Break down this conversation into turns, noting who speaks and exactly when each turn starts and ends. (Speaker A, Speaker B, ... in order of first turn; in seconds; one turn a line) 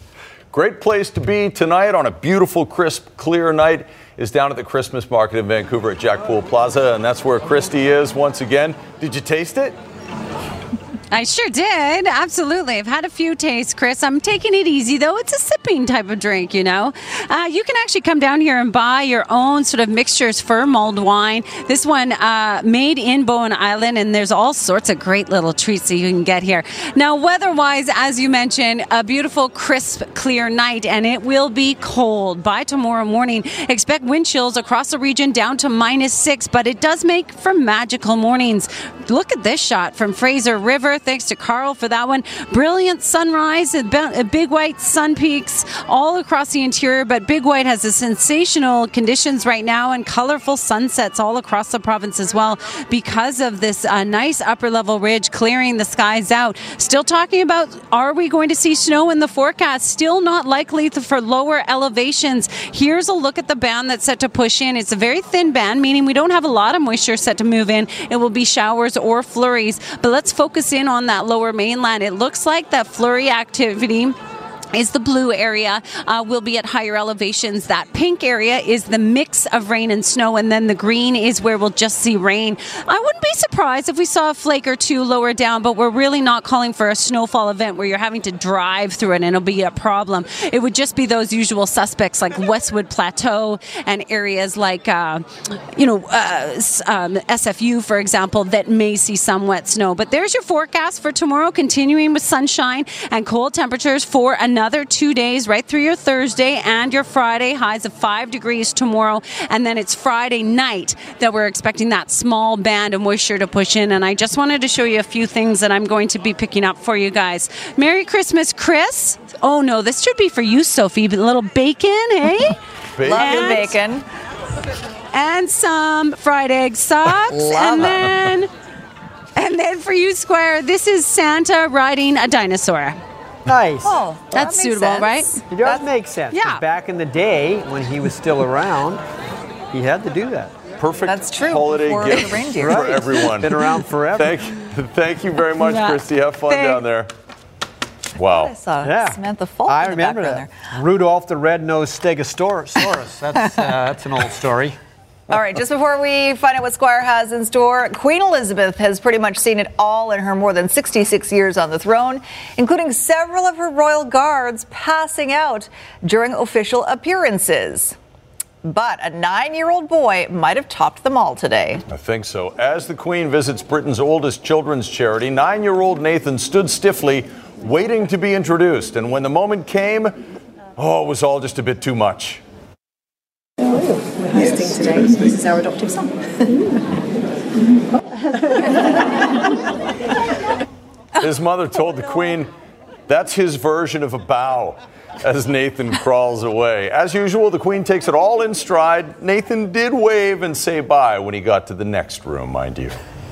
Speaker A: 0.5-9.8
Speaker B: 11.1-74.2
Speaker B: 74.7-122.6
Speaker A: 123.0-123.6
Speaker C: 123.0-124.1
Speaker B: 123.2-123.8
Speaker B: 125.1-128.5
Speaker C: 127.3-128.2
Speaker B: 129.4-133.0
Speaker D: 133.5-133.9
Speaker C: 133.8-135.4
Speaker B: 134.3-135.4
Speaker D: 135.5-139.0
Speaker B: 136.3-136.6
Speaker D: 139.7-140.5
Speaker A: 140.8-147.1
Speaker C: 141.1-142.9
Speaker D: 142.6-144.3
Speaker B: 145.7-146.0
Speaker B: 146.5-146.8
Speaker A: 148.2-148.6
Speaker C: 148.2-150.6
Speaker D: 148.8-154.8
Speaker C: 155.3-168.0
Speaker C: 168.7-171.8
Speaker A: 171.9-180.2
Speaker A: 180.8-182.4
Speaker E: 183.6-186.8
Speaker A: 191.2-192.5
Speaker A: 193.1-203.0